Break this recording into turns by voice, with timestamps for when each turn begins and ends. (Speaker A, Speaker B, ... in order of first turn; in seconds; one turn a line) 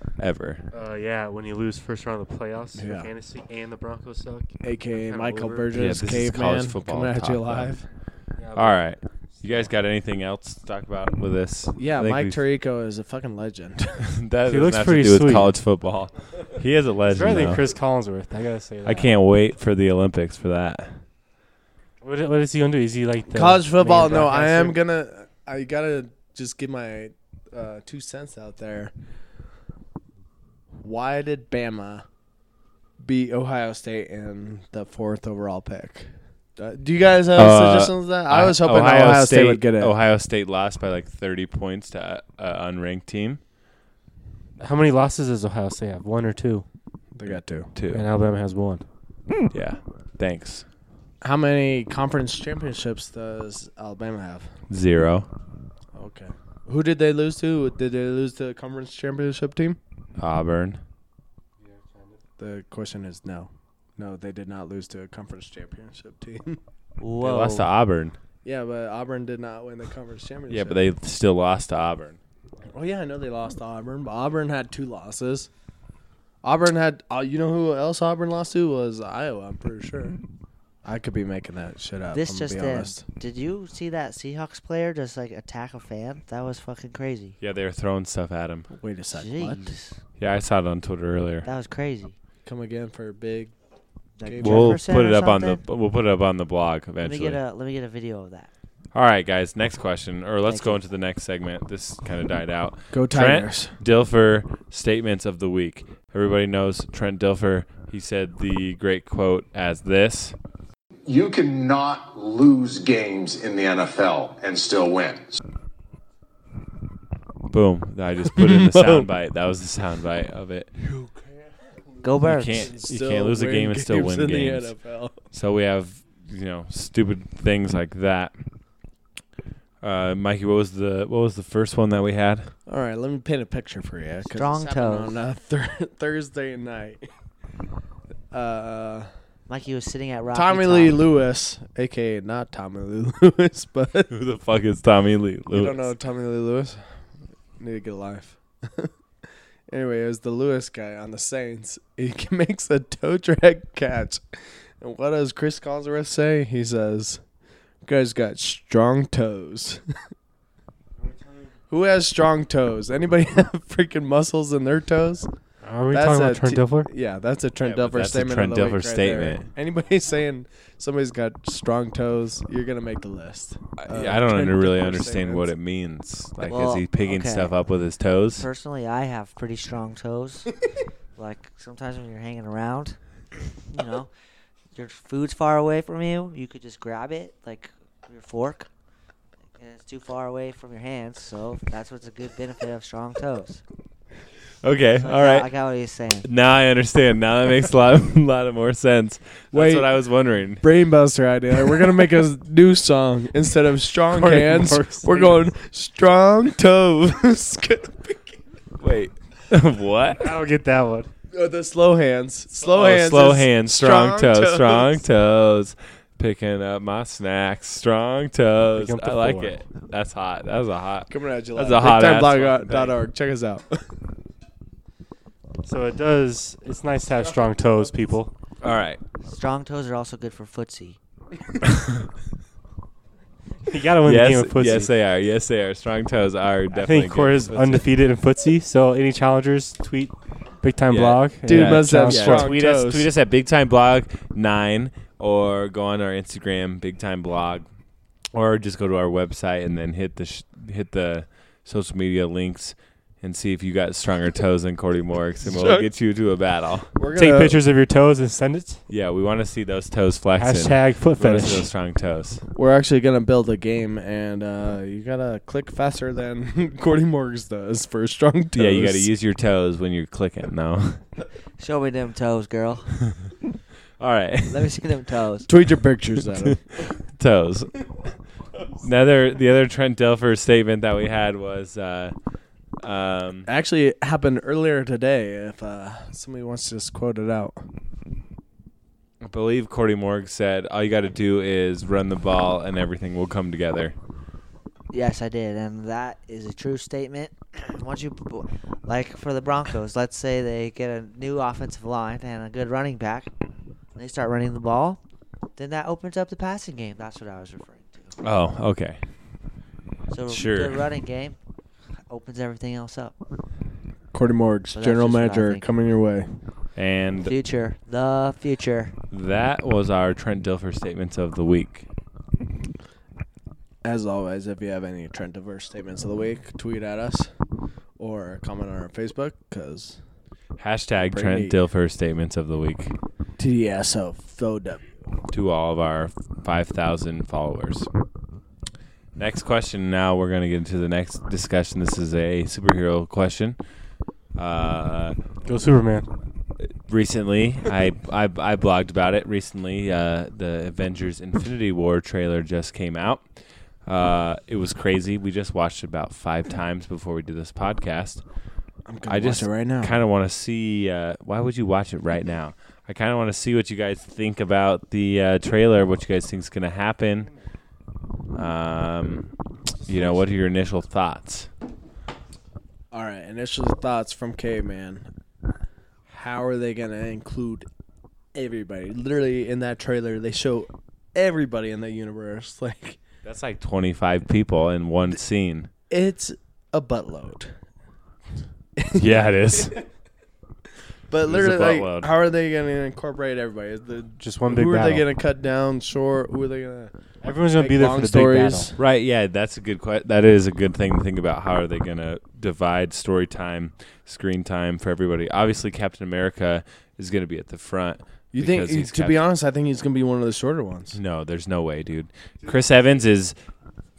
Speaker A: 0.2-0.7
Speaker B: 0.7-5.7
Speaker C: 2.8-3.1
Speaker C: 4.6-7.8
Speaker A: 5.7-7.7
Speaker B: 8.4-8.8
Speaker A: 8.6-12.4
Speaker B: 9.4-9.7
Speaker C: 11.8-14.1
Speaker A: 14.1-17.6
Speaker B: 14.5-15.5
Speaker B: 17.1-19.1
Speaker A: 18.8-21.0
Speaker B: 22.0-24.8
Speaker C: 23.3-28.9
Speaker C: 30.8-32.1
Speaker C: 33.0-39.9
Speaker A: 37.4-43.4
Speaker B: 44.6-46.7
Speaker C: 47.1-47.7
Speaker A: 47.8-48.1
Speaker B: 47.9-48.9
Speaker A: 49.5-50.6
Speaker C: 51.2-54.5
Speaker A: 54.7-55.3
Speaker C: 55.9-59.8
Speaker A: 60.2-60.8
Speaker B: 61.6-62.2
Speaker C: 62.4-66.6
Speaker D: 67.0-67.7
Speaker A: 67.2-68.2
Speaker C: 68.4-70.8
Speaker A: 70.5-72.2
Speaker C: 72.7-75.5
Speaker C: 76.4-80.2
Speaker C: 80.8-83.0
Speaker D: 82.1-87.3
Speaker A: 87.4-88.7
Speaker C: 88.7-89.8
Speaker D: 89.1-90.0
Speaker A: 90.2-91.5
Speaker D: 91.4-92.2
Speaker C: 92.4-93.5
Speaker D: 94.2-95.6
Speaker C: 94.2-94.8
Speaker A: 94.4-97.4
Speaker D: 97.0-98.5
Speaker A: 98.9-110.3
Speaker D: 100.5-100.8
Speaker C: 102.9-103.7
Speaker E: 111.1-115.4
Speaker A: 117.5-120.7
Speaker C: 118.3-119.1
Speaker C: 120.8-121.4
Speaker D: 122.0-122.7
Speaker C: 122.1-125.2
Speaker A: 122.2-124.7
Speaker A: 125.3-128.3
Speaker A: 129.8-132.5
Speaker C: 132.7-137.1
Speaker D: 134.3-135.2
Speaker C: 138.3-139.1
Speaker D: 139.5-141.0
Speaker C: 140.3-144.1
Speaker A: 144.1-145.9
Speaker C: 145.5-146.8
Speaker C: 147.6-148.9
Speaker C: 149.7-154.2
Speaker C: 154.8-157.2
Speaker C: 157.8-159.8
Speaker B: 161.0-161.5
Speaker C: 161.7-165.3
Speaker B: 165.6-166.9
Speaker C: 165.9-175.5
Speaker A: 167.6-169.4
Speaker A: 173.8-178.4
Speaker D: 176.4-177.6
Speaker D: 178.3-180.5
Speaker D: 181.2-183.0
Speaker D: 183.7-184.1
Speaker D: 184.8-188.7
Speaker D: 189.6-193.6
Speaker A: 194.6-195.5
Speaker D: 195.0-196.3
Speaker A: 196.2-200.7
Speaker C: 199.5-199.9
Speaker C: 200.6-208.4
Speaker B: 204.2-205.3
Speaker A: 208.8-210.4
Speaker B: 210.2-211.1
Speaker C: 211.3-215.0
Speaker A: 212.6-223.0
Speaker B: 218.8-219.6
Speaker C: 221.1-223.8
Speaker B: 225.7-228.3
Speaker A: 228.6-229.0
Speaker D: 229.2-231.0
Speaker B: 233.7-234.9
Speaker A: 234.0-237.9
Speaker B: 236.7-242.5
Speaker A: 240.9-247.7
Speaker C: 241.4-243.1
Speaker A: 248.3-256.9
Speaker C: 255.4-255.9
Speaker C: 256.9-257.6
Speaker B: 257.2-258.8
Speaker A: 258.9-262.4
Speaker B: 260.4-261.7
Speaker C: 262.6-269.1
Speaker A: 268.5-271.0
Speaker D: 271.6-273.0
Speaker A: 274.0-274.8
Speaker D: 274.5-275.5
Speaker C: 275.5-276.6
Speaker A: 276.4-277.9
Speaker A: 278.8-282.1
Speaker A: 282.8-283.5
Speaker C: 283.4-287.6
Speaker A: 289.2-293.9
Speaker D: 294.9-303.3
Speaker D: 303.9-305.0
Speaker D: 305.6-308.1
Speaker A: 308.2-309.0
Speaker D: 310.1-311.4
Speaker A: 310.3-310.8
Speaker D: 312.1-313.1
Speaker C: 314.1-316.3
Speaker D: 314.7-315.6
Speaker A: 316.8-317.3
Speaker D: 317.2-318.9
Speaker A: 319.1-321.9
Speaker C: 323.8-327.3
Speaker C: 328.0-330.0
Speaker A: 330.6-332.9
Speaker C: 331.0-331.6
Speaker C: 333.4-334.9
Speaker A: 335.3-337.9
Speaker A: 339.2-343.6
Speaker A: 344.3-345.2
Speaker B: 345.4-346.1
Speaker A: 346.9-353.2
Speaker A: 353.9-358.2
Speaker C: 358.9-360.0
Speaker A: 359.1-367.3
Speaker A: 368.3-369.3
Speaker A: 369.8-371.5
Speaker C: 372.9-375.1
Speaker C: 376.1-377.7
Speaker C: 378.3-383.0
Speaker A: 383.2-385.7
Speaker C: 385.9-387.6
Speaker C: 388.8-389.7
Speaker A: 388.9-389.8
Speaker C: 391.1-396.9
Speaker A: 391.2-392.1
Speaker B: 394.2-395.1
Speaker B: 397.2-398.7
Speaker C: 397.5-398.8
Speaker A: 398.8-409.2
Speaker C: 408.3-411.0
Speaker A: 410.9-413.3